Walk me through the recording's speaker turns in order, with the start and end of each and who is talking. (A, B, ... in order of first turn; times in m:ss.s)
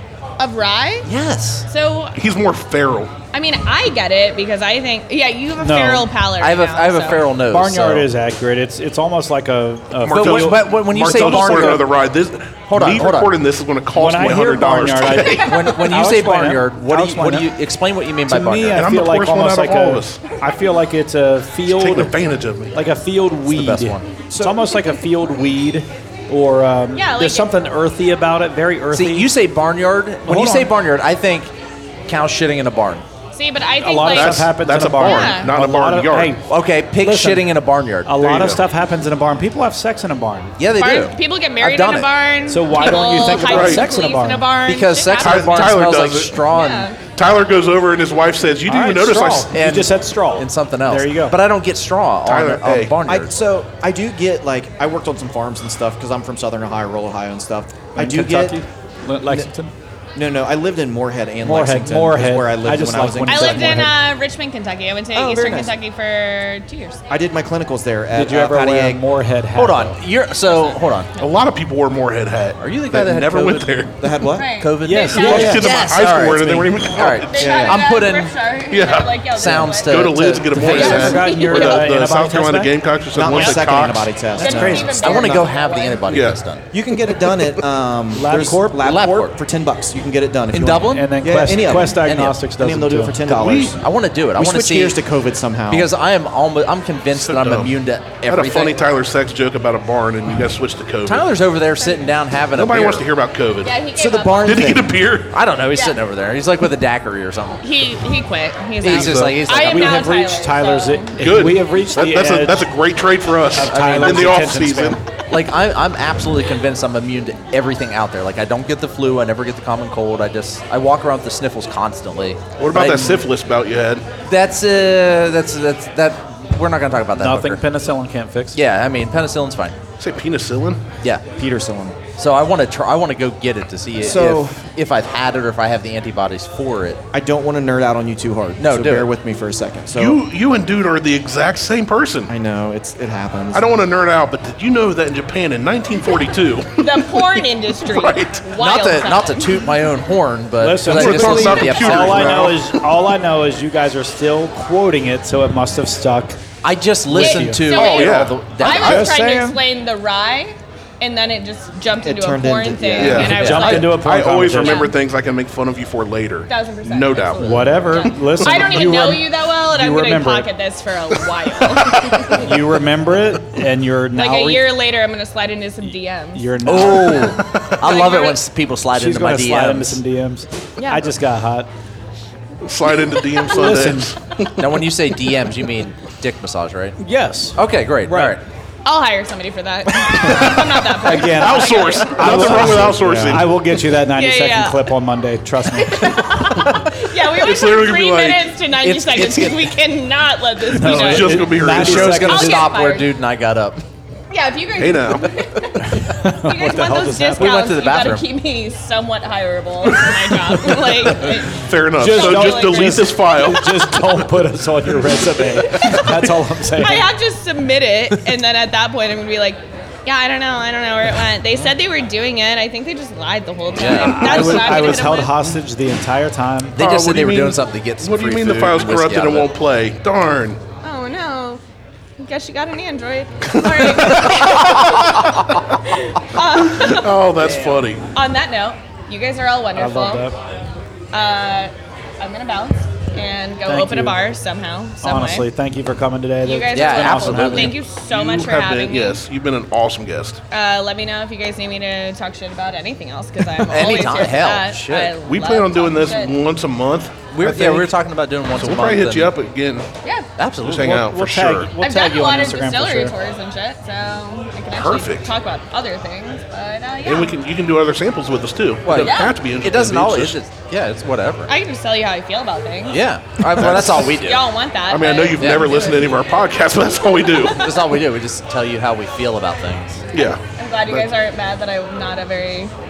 0:00.4-0:01.1 A
0:01.0-0:01.7 B
0:01.7-0:02.2 A
0:02.2-0:03.1 C
0:03.3-0:07.2 A
0:05.6-0:06.1 D
0:06.4-0:08.1 B
0:07.5-0:11.8 D
0:10.0-0:15.6 C
0:10.0-0:11.9 B
0:12.7-0:13.3 B
0:14.0-0:17.5 D
0:15.5-0:18.9 B
0:18.3-0:22.2 D
0:18.7-0:20.2 C
0:21.7-0:22.8 C
0:22.7-0:29.3 D
0:23.5-0:24.0 B
0:24.3-0:24.6 E
0:27.0-0:27.5 A
0:28.9-0:31.5 B
0:30.2-0:30.7 D
0:32.1-0:33.0 B
0:33.3-0:34.4 A
0:33.8-0:36.4 D
0:34.1-0:36.4 C
0:35.0-0:35.5 A
0:36.5-0:38.4 B
0:37.0-0:37.5 D
0:38.1-0:40.6 D
0:38.3-0:38.6 C
0:40.6-0:42.1 B
0:40.8-0:45.8 A
0:42.5-0:44.4 D
0:43.4-0:43.8 C
0:44.7-0:46.9 B
0:45.2-0:46.3 C
0:46.5-0:47.0 A
0:47.2-0:49.5 C
0:48.7-0:51.4 D
0:49.5-0:53.3 B
0:52.3-0:53.0 C
0:53.1-0:58.6 E
0:58.0-0:59.7 D
1:00.2-1:03.9 E
1:01.4-1:04.0 D
1:03.3-1:07.0 A
1:05.1-1:05.8 E
1:07.1-1:09.0 E
1:08.1-1:10.0 D
1:09.6-1:11.1 B
1:10.5-1:11.3 A
1:11.2-1:14.0 C
1:12.6-1:13.8 B
1:14.0-1:14.5 E
1:14.3-1:15.6 A
1:14.6-1:18.3 B
1:14.8-1:15.8 D
1:15.2-1:17.6 C
1:17.2-1:21.9 A
1:17.4-1:17.8 E
1:18.7-1:24.1 C
1:19.3-1:21.2 B
1:20.6-1:22.7 D
1:23.1-1:24.9 E
1:23.4-1:25.5 D
1:24.4-1:26.0 A
1:24.6-1:26.7 B
1:26.1-1:26.4 C
1:26.7-1:33.8 E
1:28.1-1:28.9 D
1:28.8-1:29.4 B
1:30.5-1:31.1 B
1:30.9-1:33.2 D
1:31.8-1:32.4 B
1:33.3-1:33.8 C
1:33.8-1:35.0 B
1:34.4-1:35.9 E
1:35.7-1:38.8 B
1:37.2-1:37.7 C
1:38.2-1:41.3 C
1:41.1-1:43.0 B
1:41.8-1:42.1 A
1:42.5-1:43.8 C
1:43.6-1:44.8 A
1:43.9-1:45.0 E
1:44.4-1:45.3 C
1:45.3-1:47.6 B
1:47.6-1:51.2 A
1:48.8-1:50.1 B
1:48.9-1:49.5 C
1:49.6-1:52.7 D
1:51.2-1:55.0 C
1:53.6-1:55.0 D
1:53.7-1:54.5 B
1:55.3-2:03.2 B
2:02.6-2:04.1 C
2:04.3-2:07.6 B
2:07.2-2:08.6 D
2:08.5-2:09.8 B
2:10.0-2:10.8 C
2:11.4-2:12.0 E
2:12.2-2:17.0 B
2:14.0-2:14.7 E
2:17.1-2:20.2 E
2:18.6-2:19.1 B
2:20.0-2:22.3 C
2:22.3-2:23.6 E
2:23.5-2:28.4 C
2:26.8-2:29.6 A
2:28.5-2:32.5 B
2:30.6-2:36.4 D
2:30.9-2:32.8 C
2:36.6-2:39.1 B
2:37.1-2:37.6 D
2:37.2-2:44.0 A
2:37.7-2:38.4 C
2:38.6-2:39.6 D
2:42.0-2:43.3 E
2:43.0-2:47.4 C
2:43.2-2:43.9 B
2:43.3-2:44.9 D
2:44.5-2:44.9 A
2:46.5-2:52.5 A
2:47.4-2:50.5 D
2:51.9-2:52.2 C
2:52.3-2:54.7 D
2:54.1-2:56.4 A
2:56.4-2:57.4 D
2:56.6-3:00.0 B
2:57.8-2:58.4 A
2:58.9-3:01.7 D
3:00.8-3:01.0 A
3:02.6-3:04.8 C
3:03.5-3:04.1 D
3:04.6-3:07.0 B
3:07.0-3:08.4 D
3:07.6-3:08.4 B
3:08.8-3:12.4 A
3:10.1-3:10.7 C
3:10.2-3:16.3 D
3:11.3-3:13.6 C
3:12.8-3:13.1 E
3:14.1-3:14.9 A
3:15.7-3:23.1 A
3:17.3-3:18.6 C
3:18.8-3:19.8 B
3:20.7-3:22.7 D
3:20.8-3:22.3 C
3:20.9-3:23.8 B
3:24.3-3:33.2 A
3:24.8-3:25.3 C
3:25.8-3:27.6 D
3:27.4-3:28.3 B
3:30.6-3:31.4 D
3:31.5-3:33.9 C
3:31.9-3:37.1 D
3:35.7-3:36.1 A
3:36.0-3:36.4 C
3:36.8-3:45.3 A
3:43.8-3:44.9 B
3:44.0-3:46.8 D
3:46.8-3:49.5 B
3:46.8-3:50.6 C
3:50.8-3:51.6 A
3:52.2-3:57.1 A
3:53.5-3:55.6 C
3:56.4-3:58.0 C
3:57.4-3:57.8 B
3:58.1-4:00.3 A
3:59.8-4:00.4 D
4:01.1-4:05.5 A
4:03.6-4:04.2 D
4:05.0-4:07.8 D
4:06.4-4:09.2 A
4:06.7-4:07.8 B
4:08.0-4:10.4 C
4:10.5-4:16.4 A
4:13.7-4:15.2 B
4:15.2-4:17.1 C
4:17.3-4:19.3 B
4:17.4-4:17.9 D
4:18.6-4:19.9 C
4:20.4-4:21.0 B
4:20.6-4:21.7 C
4:20.7-4:23.2 D
4:21.8-4:27.4 A
4:24.7-4:25.3 C
4:27.0-4:30.4 C
4:28.8-4:31.5 B
4:28.9-4:29.4 A
4:31.5-4:33.0 A
4:32.9-4:34.5 B
4:33.6-4:34.2 C
4:34.0-4:36.2 A
4:34.9-4:37.7 C
4:35.4-4:35.8 B
4:37.5-4:40.0 B
4:40.1-4:41.1 C
4:40.6-4:42.7 A